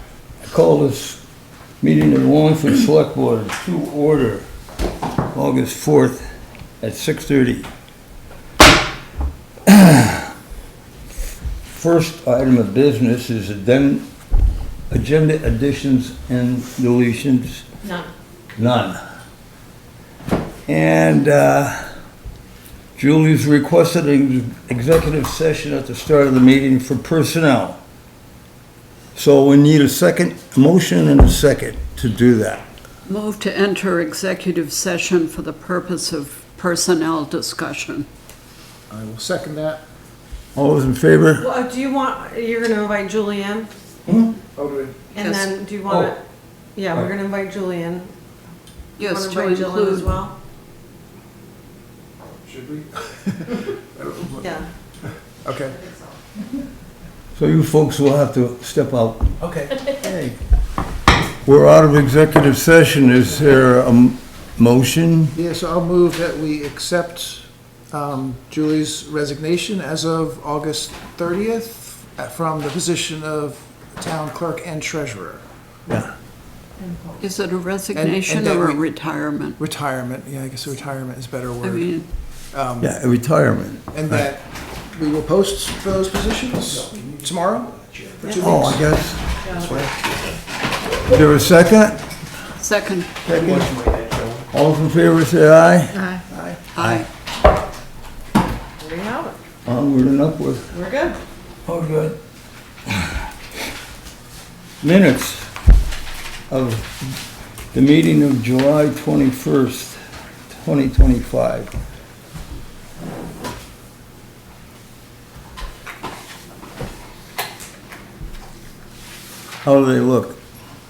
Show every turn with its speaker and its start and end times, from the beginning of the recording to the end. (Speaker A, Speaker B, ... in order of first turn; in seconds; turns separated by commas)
Speaker A: 0.4-1.2, Speaker A: 1.8-4.5, Speaker A: 5.3-6.2, Speaker A: 6.8-7.7, Speaker A: 9.7-10.3, Speaker A: 11.7-14.1, Speaker A: 14.9-17.7, Speaker B: 17.8-18.1, Speaker A: 18.6-19.0, Speaker A: 20.7-21.9, Speaker A: 22.9-27.8, Speaker A: 29.1-32.6, Speaker C: 33.0-38.1, Speaker D: 38.9-39.8, Speaker A: 40.5-41.5, Speaker B: 41.4-43.7, Speaker A: 44.1-44.3, Speaker D: 44.5-45.0, Speaker B: 45.1-46.2, Speaker C: 45.2-45.5, Speaker A: 45.9-46.1, Speaker B: 46.7-48.1, Speaker C: 49.0-50.2, Speaker B: 49.0-50.3, Speaker D: 52.4-54.6, Speaker B: 54.4-54.7, Speaker D: 55.4-55.8, Speaker A: 57.4-59.3, Speaker D: 59.4-59.8, Speaker A: 60.0-60.4, Speaker A: 61.4-65.3, Speaker D: 65.3-75.4, Speaker B: 76.9-77.2, Speaker C: 77.2-79.6, Speaker D: 77.9-78.9, Speaker D: 79.6-82.9, Speaker C: 81.6-82.0, Speaker A: 82.8-84.3, Speaker D: 83.9-88.9, Speaker B: 88.3-88.6, Speaker A: 88.4-89.3, Speaker B: 89.4-89.7, Speaker D: 89.4-90.4, Speaker A: 91.0-92.0, Speaker C: 92.6-93.1, Speaker A: 93.2-93.7, Speaker D: 93.2-94.5, Speaker A: 94.5-96.0, Speaker B: 95.9-96.2, Speaker D: 96.3-96.6, Speaker C: 96.7-97.1, Speaker A: 96.8-97.0, Speaker B: 98.8-99.4, Speaker A: 99.6-100.7, Speaker B: 100.7-101.2, Speaker A: 101.7-102.2, Speaker A: 102.9-103.2, Speaker A: 104.8-105.5, Speaker A: 106.5-107.2, Speaker A: 107.7-111.7, Speaker A: 119.6-120.4